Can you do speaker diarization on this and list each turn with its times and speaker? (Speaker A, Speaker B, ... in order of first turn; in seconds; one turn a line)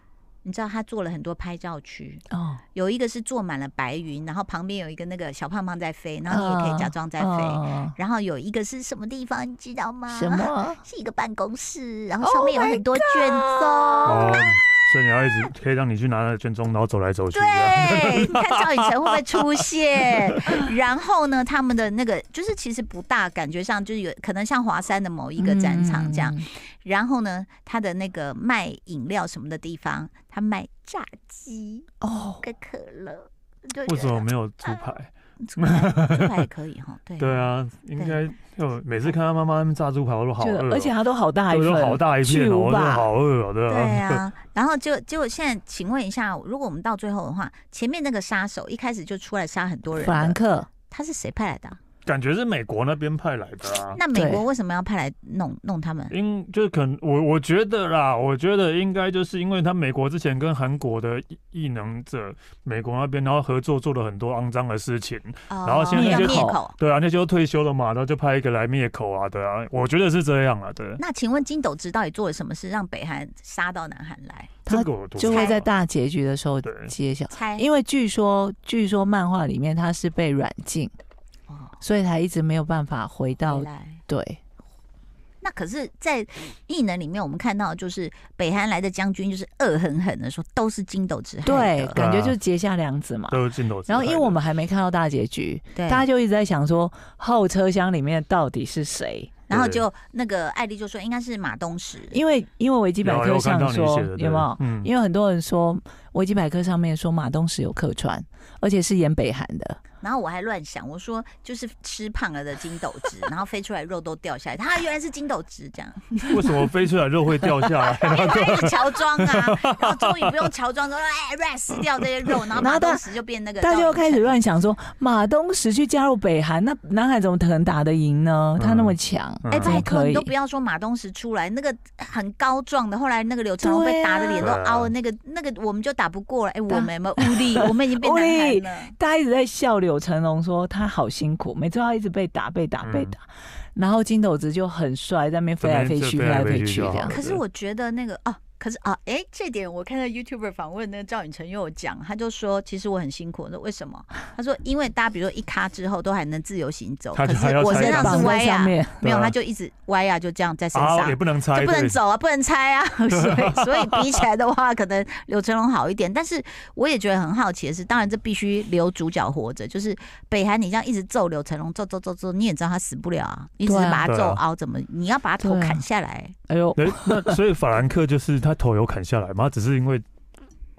Speaker A: 0.4-2.2
Speaker B: 2.3-2.6
Speaker A: 2.7-14.4
Speaker B: 6.3-7.9
Speaker B: 10.1-10.8
Speaker B: 12.2-14.2
Speaker C: 14.1-19.2
Speaker A: 17.3-31.9
Speaker B: 25.4-26.4
Speaker B: 32.0-32.4
Speaker A: 32.4-34.9
Speaker C: 33.9-36.2
Speaker A: 35.4-38.2
Speaker C: 37.2-40.9
Speaker B: 40.4-43.1
Speaker C: 41.5-44.2
Speaker A: 43.7-51.8
Speaker B: 49.9-50.7
Speaker C: 52.0-54.0
Speaker A: 53.9-56.1
Speaker B: 54.1-54.4
Speaker C: 56.1-71.0
Speaker A: 65.5-66.8
Speaker B: 65.9-66.6
Speaker A: 71.0-74.5
Speaker C: 74.7-75.7
Speaker B: 74.7-80.9
Speaker A: 75.2-75.6
Speaker C: 76.6-76.9
Speaker A: 77.3-77.7
Speaker A: 81.5-81.8
Speaker B: 81.8-84.4
Speaker A: 83.5-84.0
Speaker A: 85.4-92.0
Speaker B: 91.4-99.3
Speaker C: 91.9-92.4
Speaker C: 93.3-94.4
Speaker A: 95.7-96.0
Speaker A: 99.5-102.2
Speaker C: 99.5-99.8
Speaker B: 102.1-109.8
Speaker C: 103.0-104.9
Speaker A: 110.0-116.6
Speaker C: 116.3-120.5
Speaker A: 117.8-124.3
Speaker B: 122.5-123.0
Speaker B: 123.6-130.3
Speaker C: 128.6-129.8
Speaker A: 129.5-138.9
Speaker B: 133.6-134.5
Speaker C: 134.4-134.9
Speaker B: 136.7-143.2
Speaker C: 142.8-143.1
Speaker B: 143.7-147.2
Speaker C: 145.6-147.4
Speaker A: 147.0-176.3
Speaker C: 157.1-158.3
Speaker B: 157.6-159.0
Speaker C: 159.0-159.3
Speaker C: 160.7-162.0
Speaker C: 163.1-164.1
Speaker B: 173.7-174.1
Speaker C: 174.1-174.4
Speaker B: 175.4-175.8
Speaker B: 176.5-177.4
Speaker C: 176.8-180.0